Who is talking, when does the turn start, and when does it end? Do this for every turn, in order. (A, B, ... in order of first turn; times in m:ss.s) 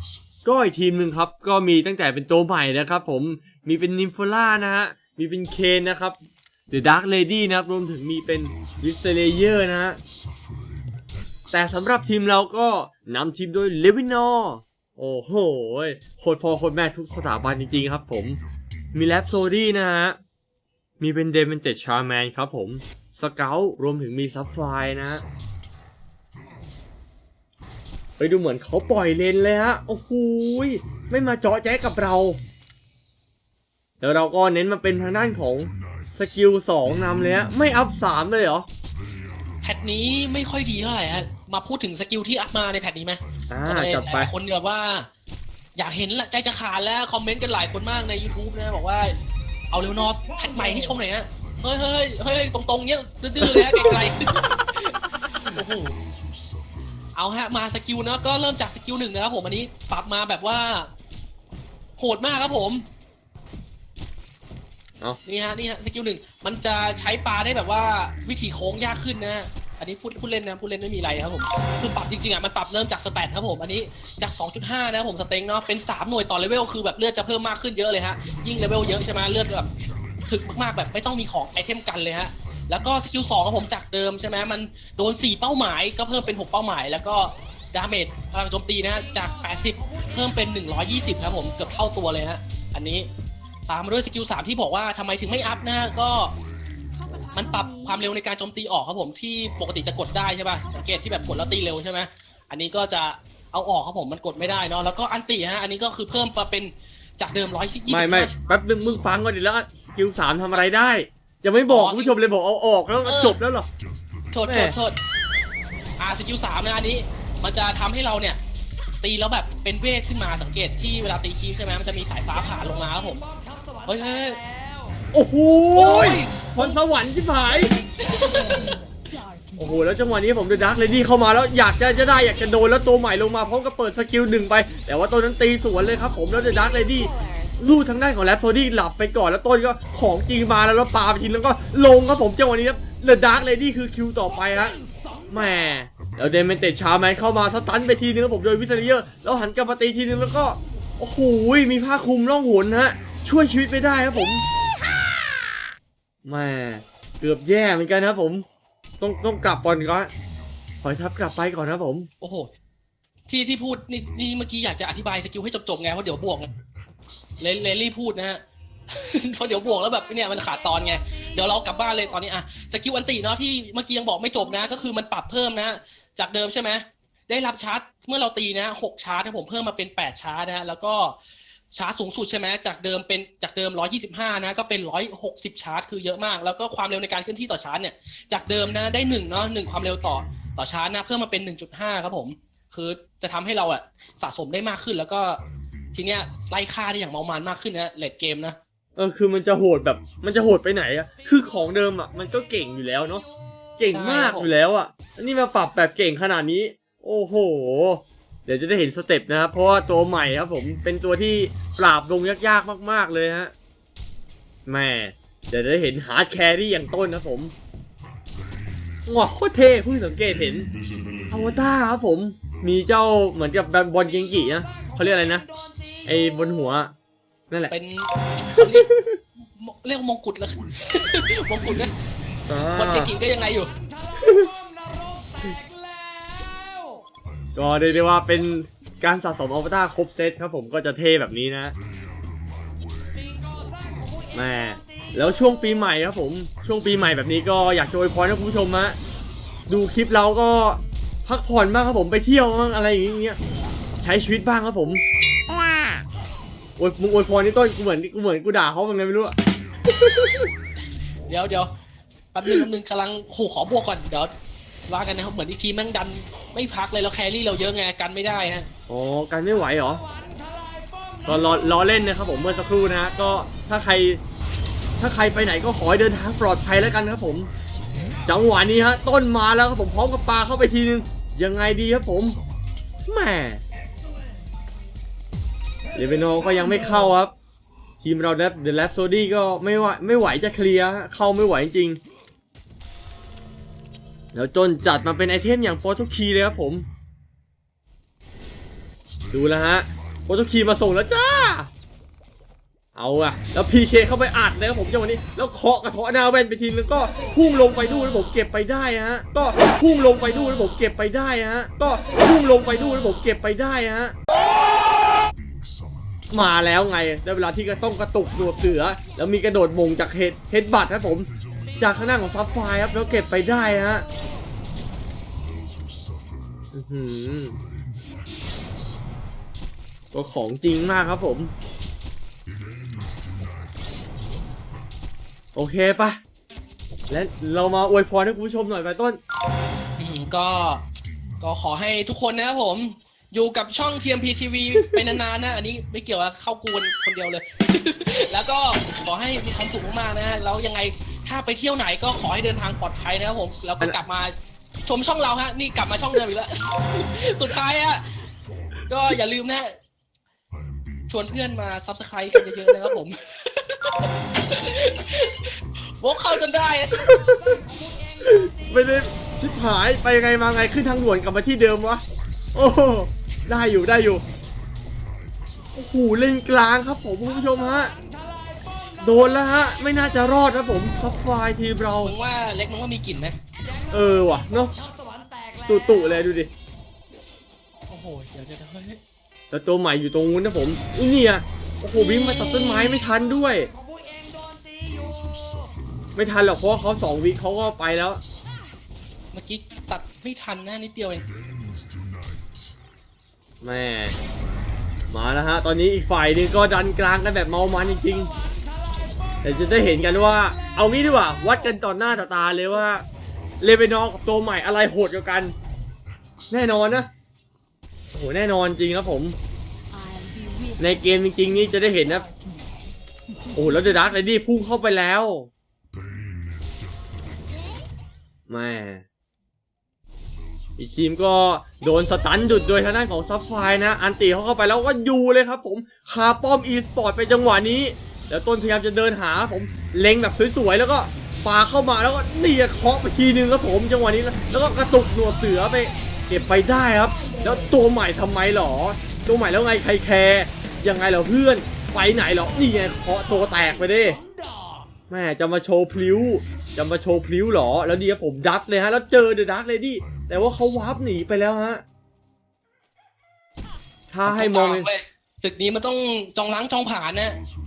0:00.4-0:06.2 A
0:06.7-0:10.0 A
0:11.5-0:18.4 A
0:18.9-0:20.2 A
0:21.0-0:25.2 A
0:28.2-0:32.4 A
0:34.0-0:38.7 A
0:39.6-0:45.1 B
0:43.5-0:44.3 A
0:45.8-0:49.2 B
0:49.7-0:55.0 B
0:53.4-0:54.0 A
0:55.6-0:55.9 A
0:57.1-1:00.9 B
1:02.0-1:02.9 B
1:05.2-1:19.7 B
1:20.3-1:33.1 B
1:33.7-1:36.4 B
1:37.3-1:48.3 B
1:47.9-1:53.7 A
1:51.7-1:52.2 B
1:53.0-1:53.4 B
1:54.3-1:55.0 B
1:54.4-1:54.8 A
1:56.0-1:58.4 B
1:59.0-2:03.2 B
2:03.8-2:04.4 B
2:05.1-2:07.8 A
2:05.7-2:06.8 B
2:08.0-2:08.8 B
2:09.6-2:24.8 A
2:25.3-2:34.4 A
2:36.2-2:38.4 A
2:39.0-2:40.1 A
2:40.8-2:42.1 A
2:42.2-2:42.5 B
2:43.3-2:46.5 B
2:47.4-3:01.2 B
3:01.7-3:18.6 B
3:19.0-3:23.2 A
3:23.8-3:33.5 A
3:23.9-3:24.5 B
3:34.6-3:37.5 A
3:39.0-3:40.7 A
3:41.3-3:45.4 A
3:46.0-3:46.9 A
3:47.7-3:48.9 B
3:48.6-3:49.2 A
3:49.4-3:52.0 B
3:52.5-3:53.1 A
3:52.7-3:53.7 B
3:54.2-3:54.5 A
3:57.6-4:01.7 A
4:04.3-4:09.0 A
4:09.7-4:13.4 A
4:14.0-4:15.0 A
4:16.8-4:20.5 A
4:21.3-4:21.7 B
4:22.3-4:24.3 B
4:24.9-4:28.7 B
4:28.9-4:30.0 A
4:31.2-4:34.2 A
4:35.0-4:37.5 A
4:38.2-4:42.4 A
4:43.0-4:43.6 A
4:45.9-4:47.3 A
4:48.0-4:52.0 A
4:54.3-4:56.8 A
4:59.3-5:01.7 A
5:02.9-5:14.2 A
5:16.3-5:24.0 A
5:26.7-5:27.6 A
5:30.1-5:31.5 A
5:35.6-5:36.2 A
5:37.1-5:39.2 A
5:40.0-5:54.3 B
5:54.8-5:58.0 B
5:58.9-5:59.8 B
6:01.1-6:07.4 B
6:02.4-6:02.8 A
6:06.9-6:07.6 A
6:08.2-6:12.0 A
6:12.5-6:14.2 A
6:15.7-6:17.9 A
6:19.0-6:22.1 A
6:22.0-6:23.4 B
6:23.9-6:24.7 A
6:25.7-6:26.5 A
6:27.9-6:29.0 B
6:29.5-6:33.7 A
6:31.9-6:33.0 B
6:36.2-6:38.2 A
6:39.3-6:41.2 B
6:43.6-6:44.2 A
6:45.1-6:48.3 A
6:49.4-6:53.0 A
6:53.6-6:55.5 A
6:56.5-6:57.1 A
6:58.1-6:59.4 A
7:00.8-7:02.3 A
7:03.5-7:05.5 A
7:08.5-7:09.0 A
7:10.8-7:34.2 A
7:35.1-7:41.8 A
7:44.1-7:44.9 A
7:44.2-7:47.4 B